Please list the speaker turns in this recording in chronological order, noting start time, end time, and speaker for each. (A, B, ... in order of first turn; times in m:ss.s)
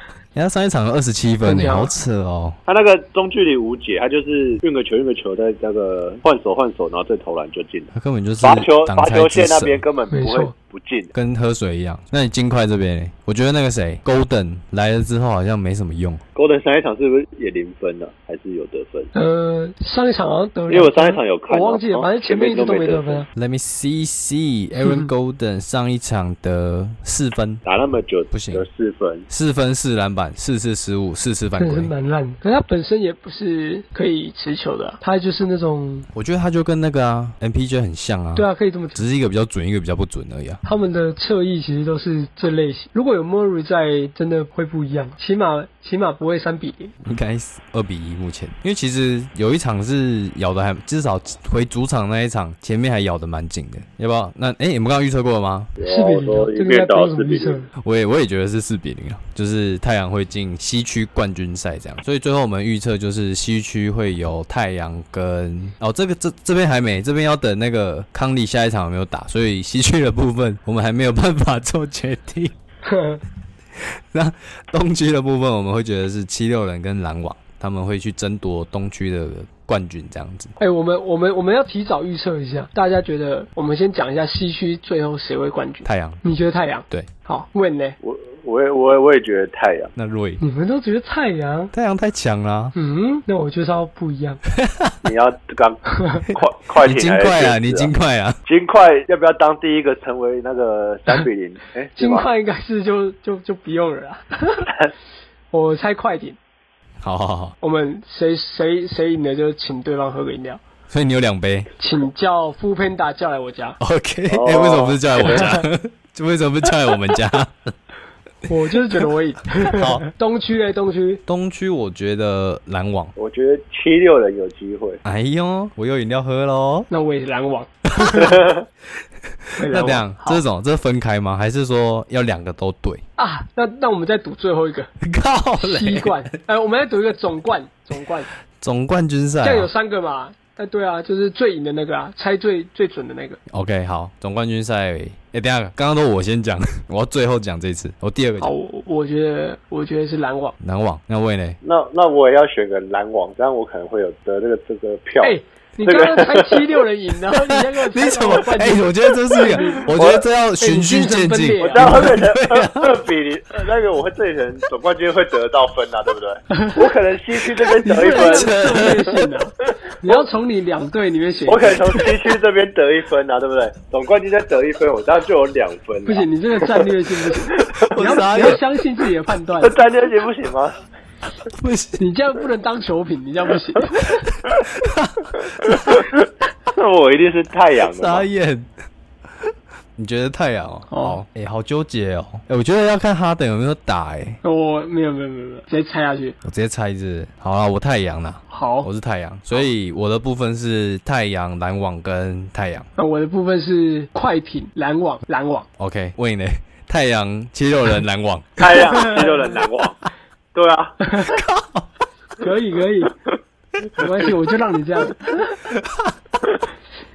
0:00.3-0:02.6 A
0:01.4-0:01.9 B
0:02.7-0:07.9 C
0:07.9-0:09.8 A
0:08.4-0:11.1 C
0:10.1-0:10.5 B
0:11.1-0:16.2 A
0:16.3-0:19.1 C
0:19.1-0:23.3 B
0:20.7-0:23.2 C
0:23.4-0:27.6 A
0:24.8-0:25.1 B
0:27.6-0:29.3 C
0:28.3-0:28.6 A
0:29.3-0:31.9 A
0:31.6-0:36.1 B
0:36.1-0:40.6 A
0:38.3-0:39.0 B
0:40.6-0:46.9 B
0:47.0-0:55.7 A
0:55.8-0:57.6 C
0:55.8-0:57.7 B
0:57.8-1:12.5 A
1:12.8-1:13.2 B
1:13.8-1:20.5 A
1:20.6-1:28.0 B
1:25.8-1:26.2 A
1:28.0-1:29.9 C
1:29.9-1:30.4 A
1:30.4-1:31.7 B
1:31.7-1:32.7 A
1:32.7-1:34.4 B
1:34.5-1:34.9 A
1:35.0-1:37.9 C
1:36.0-1:36.2 B
1:36.3-1:38.4 A
1:38.4-1:42.3 C
1:42.0-1:44.7 B
1:45.5-1:46.4 B
1:47.0-1:47.5 A
1:47.6-1:50.6 B
1:50.9-1:51.8 A
1:51.8-1:53.8 B
1:53.8-1:57.7 A
1:54.3-1:55.5 C
1:55.2-1:55.6 B
1:58.4-2:01.2 B
1:59.6-2:00.0 A
2:01.3-2:03.1 A
2:03.2-2:05.0 C
2:05.0-2:06.9 A
2:06.9-2:08.4 B
2:08.0-2:08.3 A
2:08.3-2:08.6 C
2:09.4-2:13.0 A
2:09.6-2:10.4 B
2:13.2-2:14.9 B
2:15.0-2:16.2 A
2:15.6-2:18.3 B
2:18.6-2:19.7 A
2:19.4-2:23.4 B
2:23.5-2:28.5 A
2:28.4-2:30.6 B
2:30.6-2:31.6 A
2:31.6-2:36.8 C
2:35.2-2:39.9 B
2:37.3-2:42.9 A
2:39.9-2:40.2 C
2:40.6-2:42.1 B
2:41.6-2:49.0 C
2:46.5-2:46.8 B
2:47.8-2:52.1 B
2:48.1-2:49.1 A
2:51.5-2:58.2 C
2:56.0-2:59.8 B
2:57.8-2:58.6 A
2:59.6-3:00.8 C
3:01.5-3:02.0 A
3:02.0-3:04.3 B
3:04.7-3:06.0 A
3:05.7-3:06.1 C
3:06.7-3:08.3 C
3:07.9-3:08.7 A
3:10.0-3:14.4 A
3:10.9-3:11.2 B
3:14.4-3:16.4 B
3:16.4-3:22.9 A
3:18.5-3:18.9 B
3:23.0-3:25.7 B
3:25.8-3:28.7 A
3:28.6-3:31.0 C
3:28.9-3:29.3 B
3:31.0-3:31.4 B
3:31.3-3:31.9 A
3:32.4-3:33.1 B
3:33.9-3:35.6 B
3:35.7-3:36.1 A